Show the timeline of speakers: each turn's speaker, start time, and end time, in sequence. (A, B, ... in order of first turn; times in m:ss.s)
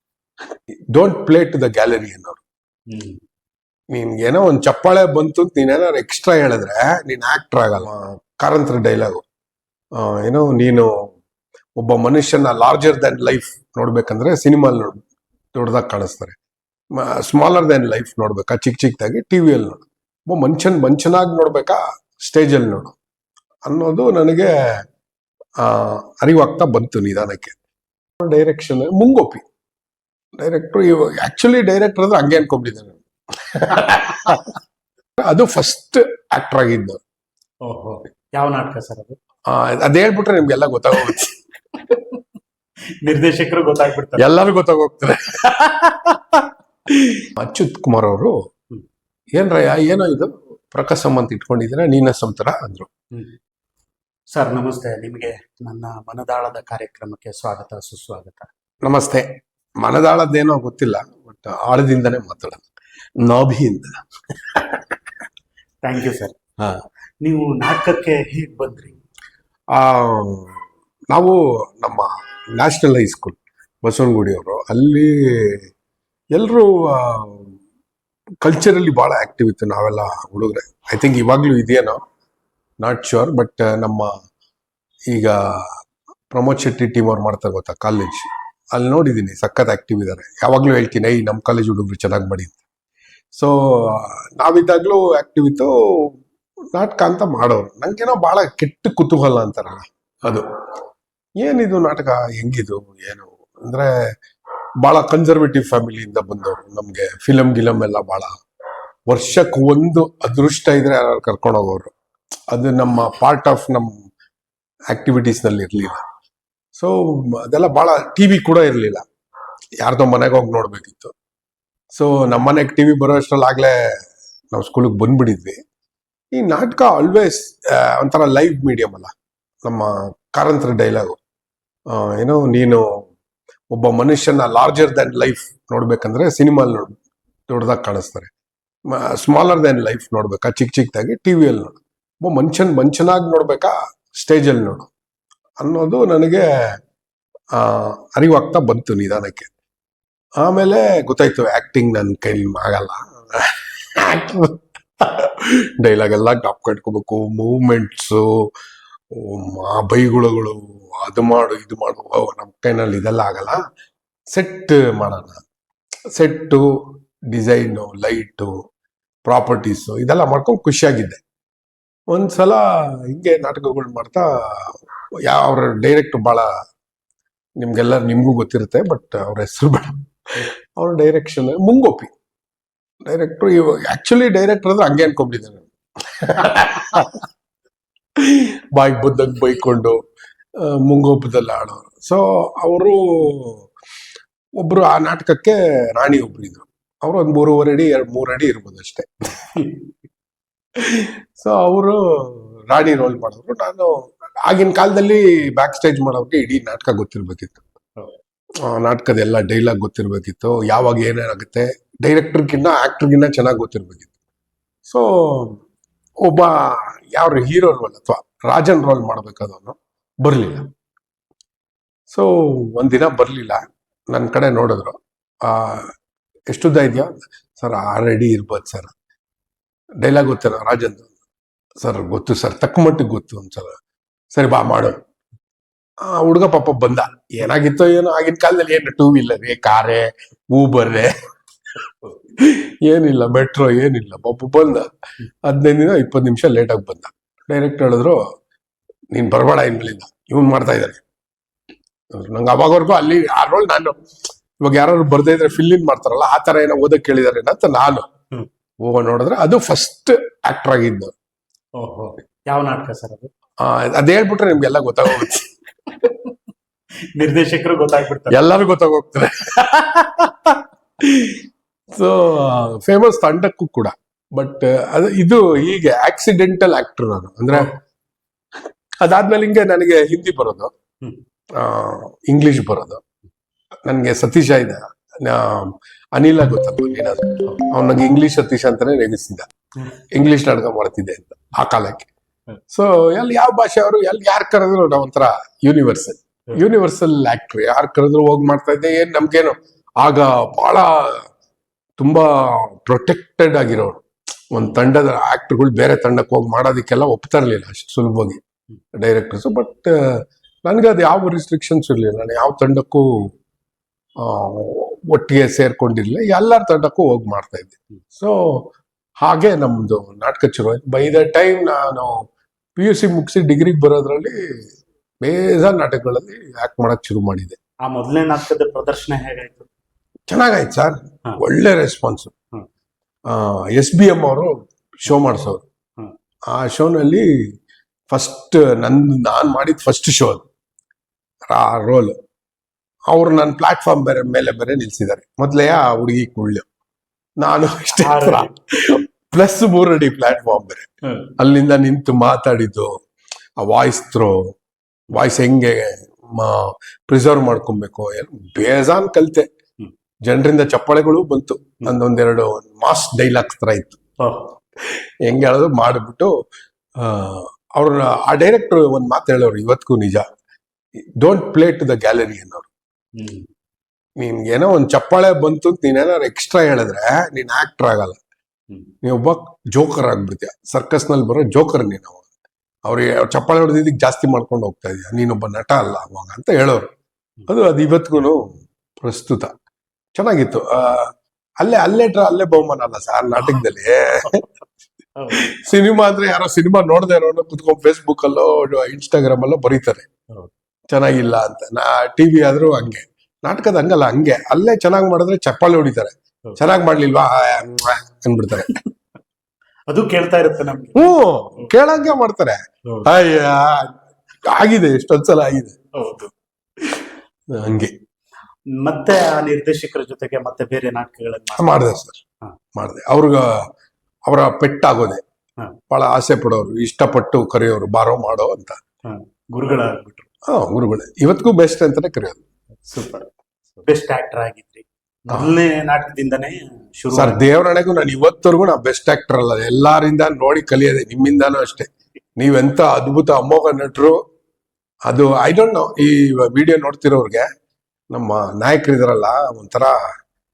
0:00.9-0:02.4 A
0:02.9-0:03.2 B
0:03.9-0:09.2 A
0:10.0-0:11.1 A
0:11.8-0:15.0 A
0:15.5-0:16.4 A
0:16.9-0:23.0 A
0:23.6-0:24.8 A
0:25.6-0:27.6 A
0:28.2-0:29.4 A
0:30.4-0:34.5 A
0:35.2-0:37.0 A
0:37.6-0:39.2 B
0:39.5-0:41.4 A
0:41.9-0:42.2 B
0:43.0-0:44.2 B
0:44.2-0:46.0 A
0:46.9-0:48.3 A
0:49.4-0:52.9 A
0:54.3-0:58.5 B
0:58.8-0:59.3 A
0:59.8-1:02.7 A
1:03.2-1:04.8 A
1:05.8-1:06.4 B
1:07.2-1:09.0 B
1:09.7-1:10.6 A
1:11.1-1:15.6 A
1:16.3-1:17.5 A
1:18.4-1:22.0 A
1:22.8-1:24.1 A
1:25.1-1:25.8 A
1:26.3-1:32.6 A
1:33.3-1:36.2 A
1:36.7-1:40.5 A
1:41.4-1:43.9 A
1:44.8-1:48.3 A
1:49.1-1:51.9 A
1:52.5-1:54.0 A
1:54.9-1:56.0 A
1:56.8-1:59.0 A
1:59.8-2:01.1 A
2:01.9-2:04.0 A
2:04.5-2:05.6 A
2:06.3-2:09.1 A
2:09.6-2:11.2 A
2:11.9-2:13.1 A
2:13.7-2:17.0 A
2:17.5-2:18.3 A
2:18.9-2:24.9 A
2:25.6-2:26.7 A
2:27.5-2:29.5 A
2:30.4-2:38.5 A
2:39.1-2:43.6 A
2:44.3-2:45.4 A
2:46.2-2:46.8 A
2:47.3-2:48.5 A
2:49.2-2:51.2 A
2:52.1-2:56.5 A
2:57.6-3:02.1 A
3:03.0-3:07.2 A
3:08.2-3:10.0 A
3:10.6-3:13.7 A
3:14.6-3:19.5 A
3:20.8-3:27.6 A
3:28.6-3:34.1 A
3:34.8-3:35.6 A
3:36.2-3:40.7 A
3:42.1-3:45.9 A
3:46.5-3:48.9 A
3:50.0-3:51.1 A
3:51.8-3:53.7 A
3:54.3-3:55.0 A
3:56.0-4:01.1 A
4:02.4-4:04.9 A
4:05.4-4:08.2 A
4:09.1-4:11.0 A
4:12.1-4:14.0 A
4:14.6-4:18.0 A
4:18.8-4:21.1 A
4:21.8-4:23.3 B
4:23.6-4:25.5 A
4:26.0-4:26.3 B
4:27.2-4:28.4 B
4:28.3-4:31.4 A
4:32.0-4:37.7 A
4:39.0-4:40.7 A
4:41.6-4:43.0 A
4:43.8-4:49.5 A
4:50.1-4:52.1 A
4:52.7-5:01.3 A
5:02.0-5:08.4 A
5:08.9-5:13.3 A
5:14.2-5:18.7 A
5:19.2-5:22.2 A
5:22.8-5:24.5 A
5:25.2-5:27.6 A
5:27.8-5:29.7 B
5:30.3-5:32.3 A
5:33.3-5:35.6 A
5:36.5-5:37.3 A
5:38.1-5:40.4 A
5:41.5-5:42.1 A
5:43.1-5:46.6 A
5:47.4-5:52.9 A
5:47.9-5:48.5 B
5:53.6-5:54.5 A
5:55.1-5:59.5 A
6:00.2-6:04.0 A
6:04.2-6:04.5 B
6:04.9-6:06.3 A
6:07.0-6:10.2 A
6:11.2-6:12.7 A
6:13.2-6:13.5 B
6:14.2-6:18.2 A
6:19.0-6:22.2 A
6:22.8-6:26.9 A
6:27.5-6:29.5 A
6:30.1-6:34.4 A
6:33.4-6:33.6 B
6:35.2-6:35.4 B
6:35.3-6:40.1 A
6:40.9-6:48.8 A
6:49.9-6:51.7 B
6:51.0-6:55.8 A
6:55.9-6:56.3 B
6:57.5-6:57.9 A
6:58.7-7:01.8 B
7:01.6-7:02.2 A
7:02.8-7:03.7 A
7:04.3-7:05.2 A
7:05.9-7:08.8 A
7:09.0-7:10.3 B
7:10.5-7:12.4 A
7:12.8-7:13.3 B
7:13.8-7:17.4 B
7:17.1-7:24.2 A
7:25.1-7:27.5 A
7:28.1-7:30.0 A